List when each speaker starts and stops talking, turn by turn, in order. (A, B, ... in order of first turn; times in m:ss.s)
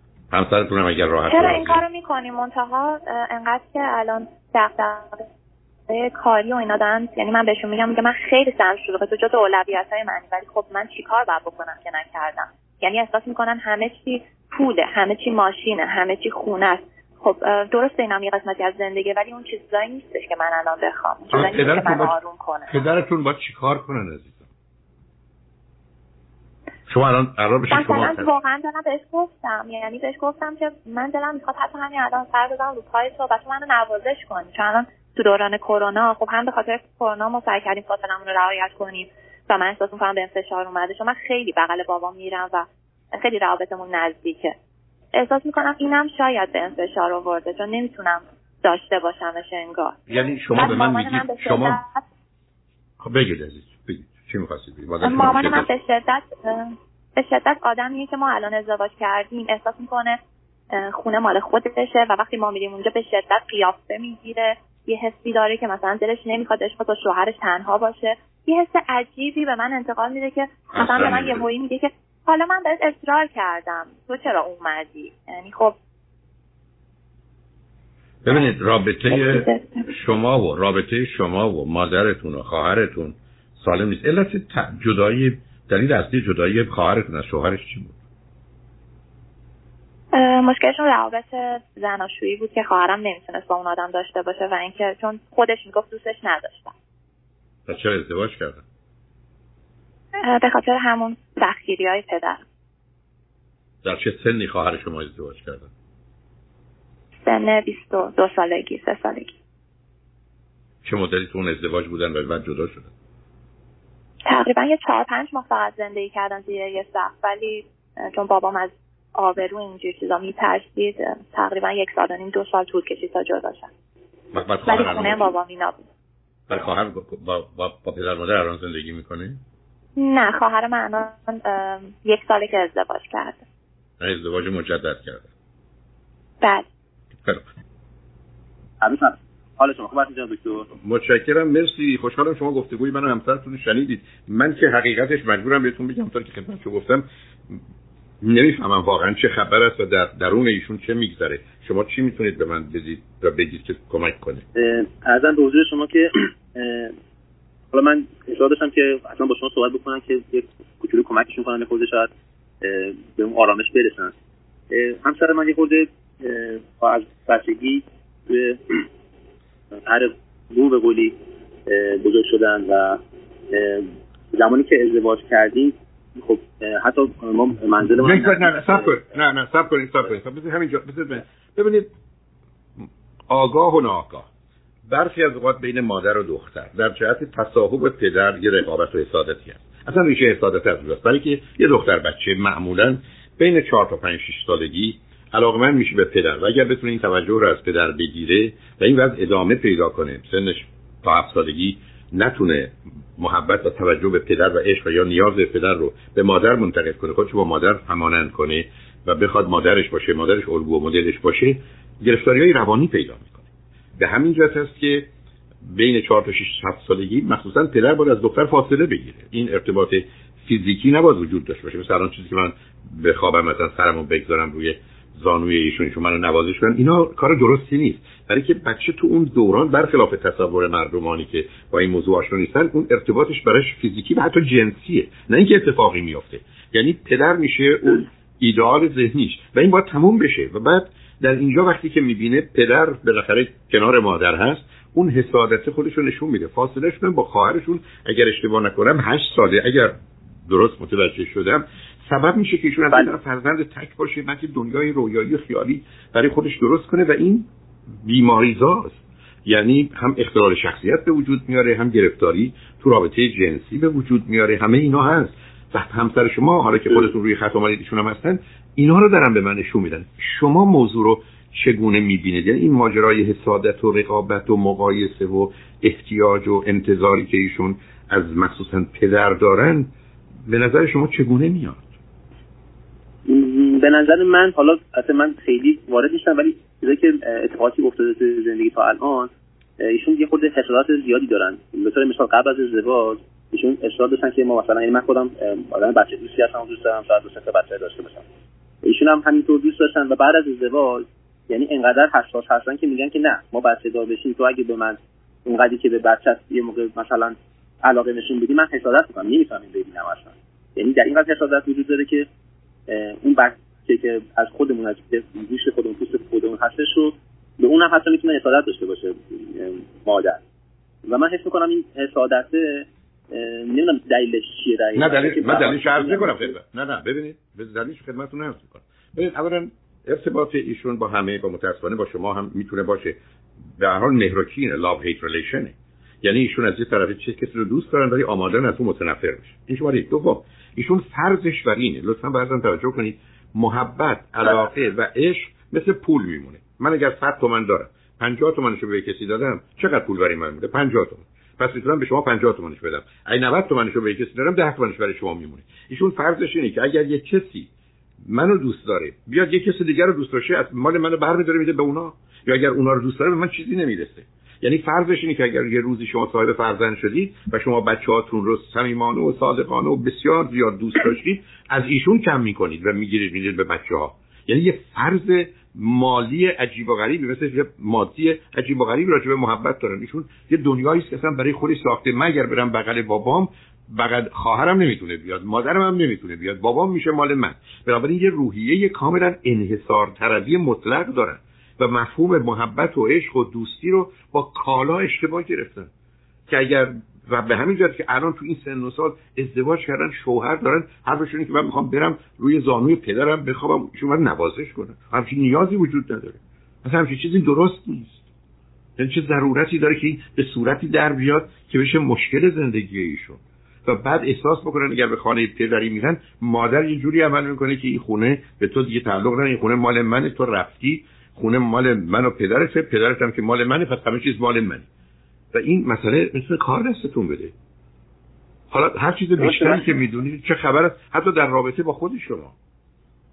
0:00.3-0:01.8 A
0:01.3-0:05.2 B
0:05.9-0:22.8 B
0:21.3-0:22.1 A
0:22.7-0:24.5 A
0:26.9-0:28.3 A
0:27.7-0:44.5 B
0:45.1-0:52.0 B
0:50.1-0:51.8 A
0:53.0-0:55.7 A
0:55.0-1:00.2 B
1:00.7-1:15.8 B
1:10.7-1:11.4 A
1:18.2-1:28.0 A
1:19.1-1:19.9 B
1:30.1-1:36.7 B
1:37.7-1:38.6 A
1:40.2-1:42.4 B
1:43.8-1:45.7 A
1:47.2-1:49.3 B
1:50.8-1:52.9 A
1:54.2-2:03.7 B
2:04.3-2:05.2 A
2:04.6-2:05.8 B
2:06.5-2:09.4 A
2:10.0-2:13.4 B
2:14.0-2:15.3 A
2:16.4-2:16.6 B
2:18.8-2:20.7 C
2:20.8-2:27.6 A
2:28.2-2:34.4 A
2:34.6-2:37.0 C
2:37.7-2:42.1 C
2:42.6-2:44.1 C
2:44.7-2:48.9 C
2:49.7-2:51.1 C
2:51.7-2:53.0 C
2:53.5-2:58.9 C
2:57.9-3:01.9 A
3:02.8-3:04.3 A
3:04.9-3:33.4 A
3:34.0-3:35.1 A
3:35.6-4:09.9 A
4:10.5-4:17.5 A
4:18.0-4:39.9 A
4:40.5-4:41.9 A
4:43.3-4:58.2 C
4:58.8-5:12.3 C
5:12.9-5:20.4 C
5:21.0-5:26.5 C
5:25.0-5:33.2 A
5:33.8-5:57.7 A
5:58.2-6:35.9 A
6:36.5-6:48.2 A
6:49.0-7:04.9 A
7:05.5-7:07.5 A
7:08.7-7:12.5 A
7:09.4-7:09.9 C